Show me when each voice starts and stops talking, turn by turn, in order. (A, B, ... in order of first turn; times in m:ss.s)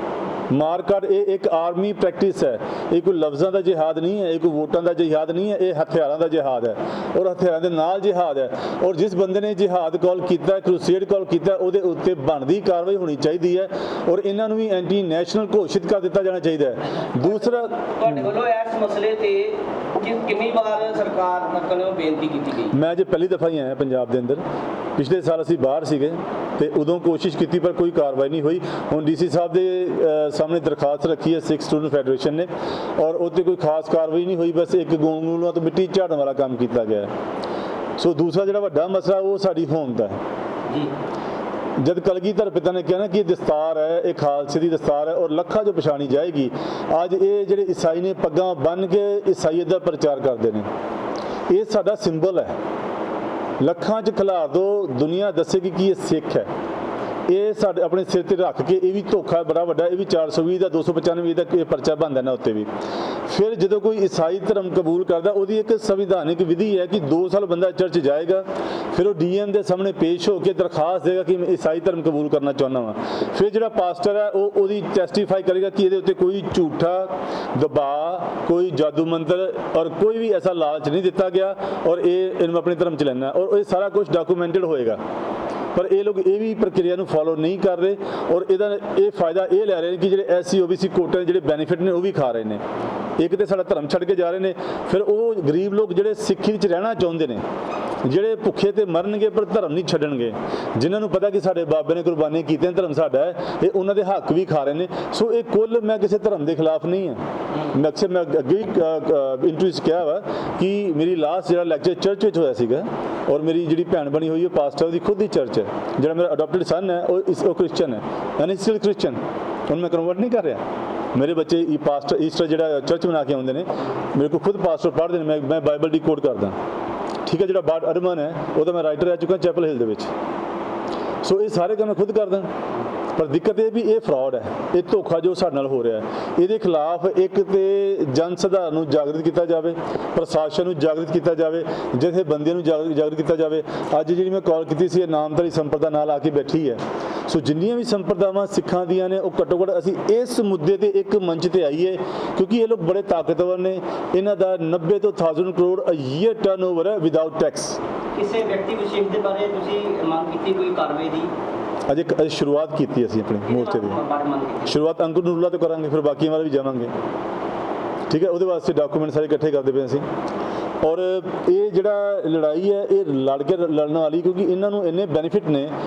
0:00.5-0:18.3 A
0:17.2-0:22.7 B
0:22.7-0:24.4 A
0:25.0-0:37.1 A
0:38.0-0:40.2 A
0:41.8-0:50.7 A
0:51.5-0:52.6 A
0:53.6-0:56.5 A
0:57.3-1:02.7 A
1:03.3-1:25.0 A
1:25.8-1:32.6 A
1:33.2-1:37.4 A
1:38.0-2:00.6 A
2:01.2-2:06.6 A
2:07.3-2:10.1 A
2:11.2-2:12.5 A
2:13.2-2:37.8 A
2:38.2-2:41.3 C
2:41.9-2:44.0 A
2:43.5-2:44.8 C
2:44.7-2:46.9 A
2:48.1-2:50.0 A
2:50.8-2:55.7 A